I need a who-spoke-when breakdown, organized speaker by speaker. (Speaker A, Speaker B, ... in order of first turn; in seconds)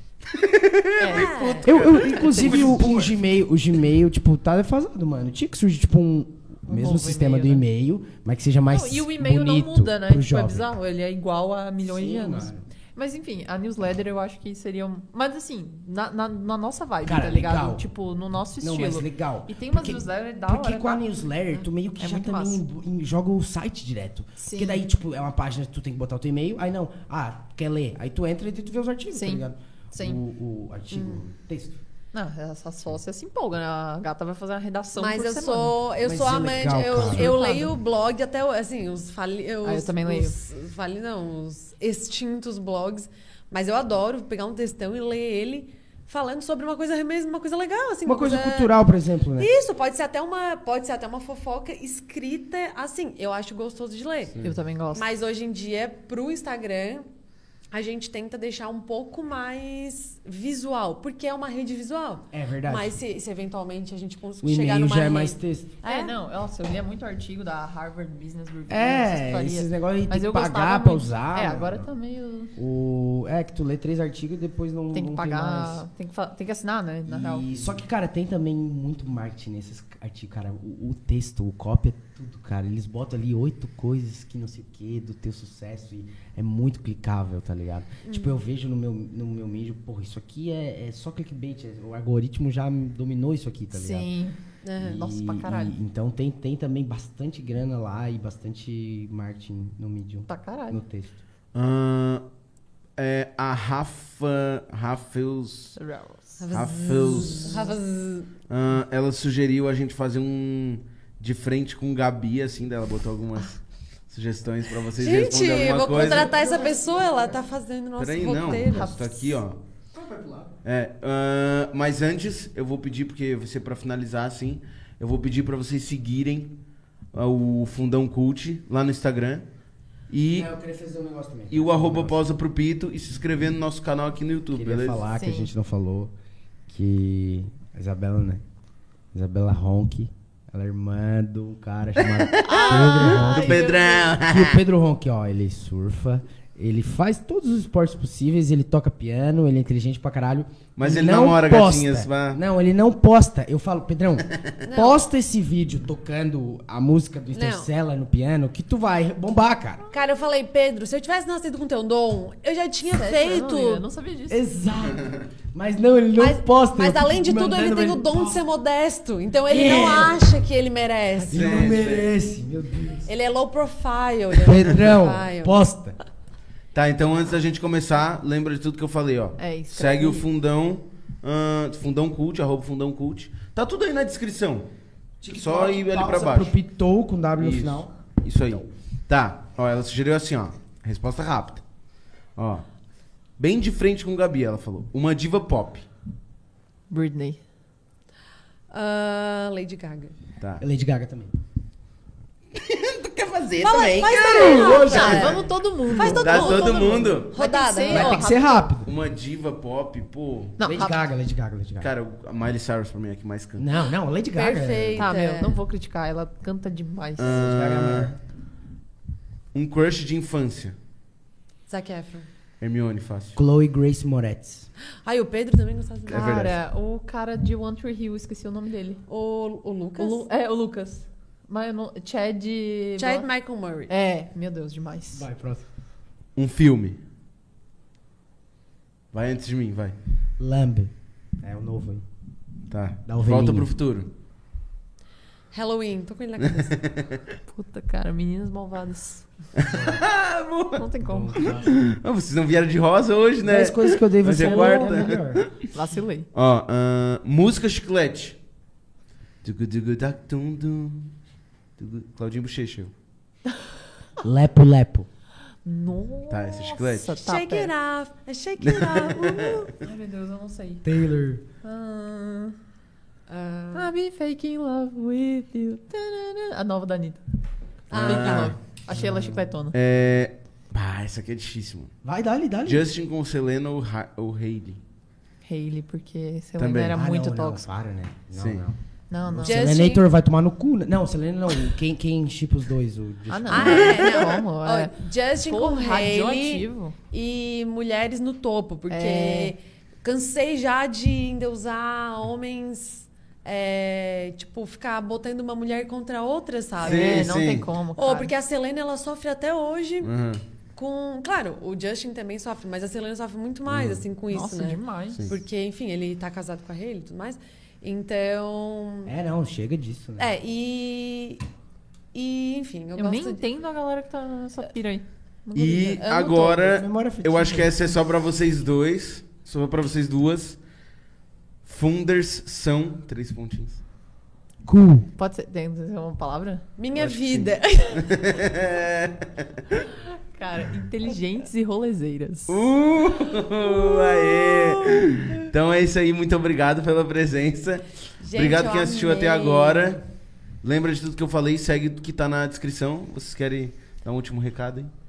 Speaker A: 0.3-3.1, 101.5-102.2, 103.0-105.8, 106.5-107.7, 108.5-116.4, 118.0-119.6, 120.6-126.6, 127.1-129.4, 130.1-130.5, 131.5-135.1, 142.2-144.6, 150.8-152.4, 171.3-172.1, 176.7-184.7, 185.3-186.5, 187.4-191.6, 192.4-192.7, 193.4-195.9, 200.4-200.7, 206.0-207.4, 208.8-210.6, 211.8-213.7, 217.2-218.1, 219.5-220.8, 222.6-223.4, 226.1-226.5, 236.3-237.0, 239.1-239.9, 242.7-244.1, 246.6-247.2, 249.6-255.7, 256.3-258.4, 259.4-261.1, 261.8-262.9, 266.3-267.1, 268.6-269.8, 277.9-278.6, 279.7-281.9, 282.6-284.8, 286.6-287.0, 288.4-288.6, 306.8-307.7, 310.0-310.4, 313.7-314.0, 325.6-330.6, 331.6-333.8, 336.9-339.3, 342.5-350.0, 350.6-354.9
Speaker B: 1.0-2.9, 6.7-7.7, 8.7-21.1, 22.0-22.6, 24.4-24.8, 29.1-30.2, 32.1-35.8, 37.1-37.7, 39.6-40.3, 54.4-55.1, 65.8-72.5, 74.9-77.5, 93.7-95.8, 100.3-100.8, 105.8-106.5, 118.3-119.3, 135.1-135.5, 142.4-144.2, 163.0-164.4, 179.4-180.3, 196.9-197.4, 204.4-208.7, 210.6-211.0, 215.0-217.5, 226.1-229.0, 230.0-233.3, 233.9-235.3, 247.5-249.3, 250.7-251.6, 255.7-256.3, 265.6-267.7, 269.8-270.9, 271.6-272.6, 273.7-277.2, 277.9-279.8, 285.4-287.7, 289.1-289.9, 293.3-297.0, 298.9-299.5, 306.8-308.3, 314.3-315.3, 323.0-326.1, 335.2-336.7, 340.3-342.6
Speaker C: 1.1-1.7, 30.9-31.2, 35.0-48.7, 49.4-54.3, 54.9-57.0, 57.7-66.2, 88.0-88.4, 94.6-95.0, 106.4-108.3, 115.0-119.1, 154.6-155.1, 157.3-157.7, 159.9-163.8, 166.2-172.0, 173.1-175.6, 198.7-200.2, 203.6-208.2, 214.3-215.6, 221.7-222.3, 225.1-226.5, 229.1-230.2, 233.0-233.9, 245.5-246.8, 267.2-269.7, 273.3-273.9, 277.9-278.5, 289.4-290.0, 293.5-307.3, 308.0-310.1, 310.8-319.1, 320.2-321.4, 322.1-323.4, 325.9-326.7, 336.8-338.1, 343.6-345.4, 348.2-350.0
Speaker D: 1.2-10.7, 11.8-12.7, 17.1-17.9, 18.6-31.8, 36.0-37.6, 48.0-49.5, 62.3-63.0, 64.4-65.8, 68.7-71.9, 72.6-75.8, 77.1-94.1, 94.8-101.1, 115.8-117.4, 119.9-120.5, 130.3-132.4, 134.5-136.1, 136.7-138.4, 139.1-159.8, 164.3-168.4, 169.5-170.2, 171.2-173.1, 174.4-176.0, 185.2-188.7, 200.6-201.3, 202.5-205.5, 207.9-208.9, 210.6-211.9, 213.6-215.1, 217.2-218.2, 223.3-224.7, 235.1-235.7, 240.4-242.1, 243.1-243.7, 249.7-250.0, 251.0-251.7, 253.4-255.4, 264.2-265.1, 270.8-271.4, 278.9-279.5, 282.0-282.9, 286.9-294.1, 319.1-320.3, 326.5-327.8, 334.6-335.1